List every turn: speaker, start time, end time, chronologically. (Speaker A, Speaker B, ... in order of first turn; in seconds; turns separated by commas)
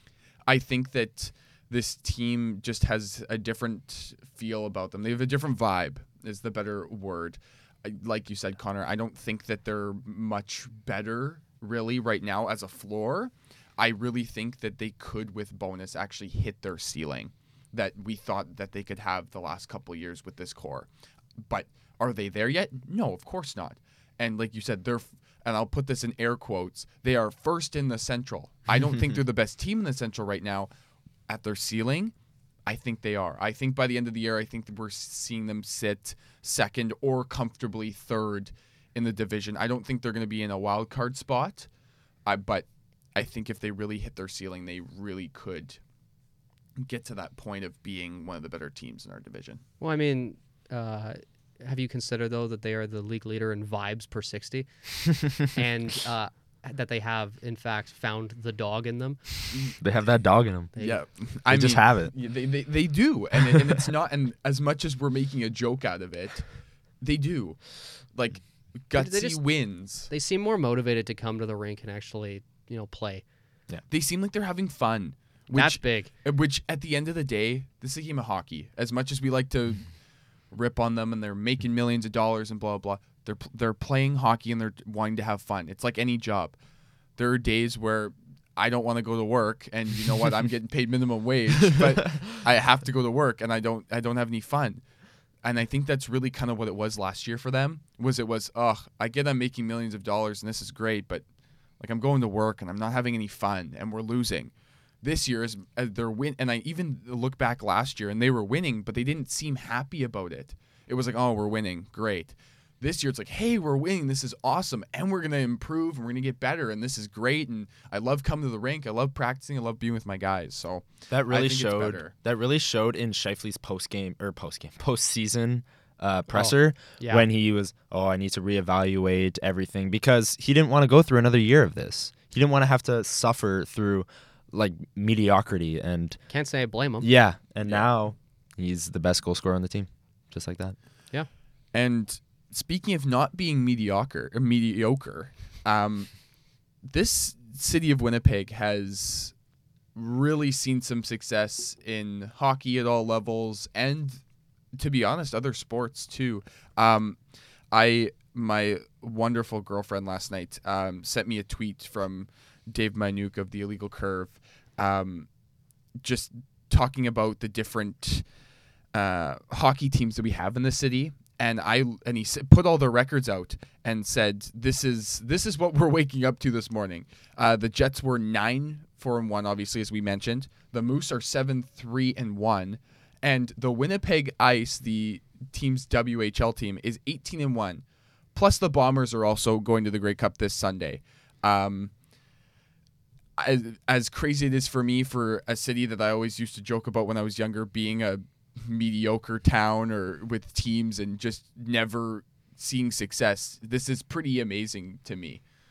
Speaker A: 0.5-30.7, Speaker A: 31.3-32.1, Speaker A: 32.6-41.7, Speaker A: 42.3-45.8, Speaker A: 46.8-49.6, Speaker B: 49.8-59.7, Speaker C: 59.8-60.7, Speaker B: 60.7-61.0, Speaker A: 60.8-70.1, Speaker C: 61.5-62.1, Speaker B: 69.0-73.2, Speaker A: 73.9-80.0, Speaker B: 75.5-76.1, Speaker A: 80.5-86.6, Speaker A: 87.2-94.8, Speaker A: 95.4-101.3, Speaker A: 101.8-122.1, Speaker C: 121.1-136.2, Speaker B: 126.3-127.3, Speaker B: 136.3-137.1, Speaker C: 137.0-140.8, Speaker A: 141.7-146.2, Speaker A: 146.8-149.3, Speaker A: 149.9-154.2, Speaker A: 154.8-165.3, Speaker A: 166.0-168.3, Speaker A: 168.9-187.8, Speaker A: 188.3-191.9, Speaker A: 193.4-205.4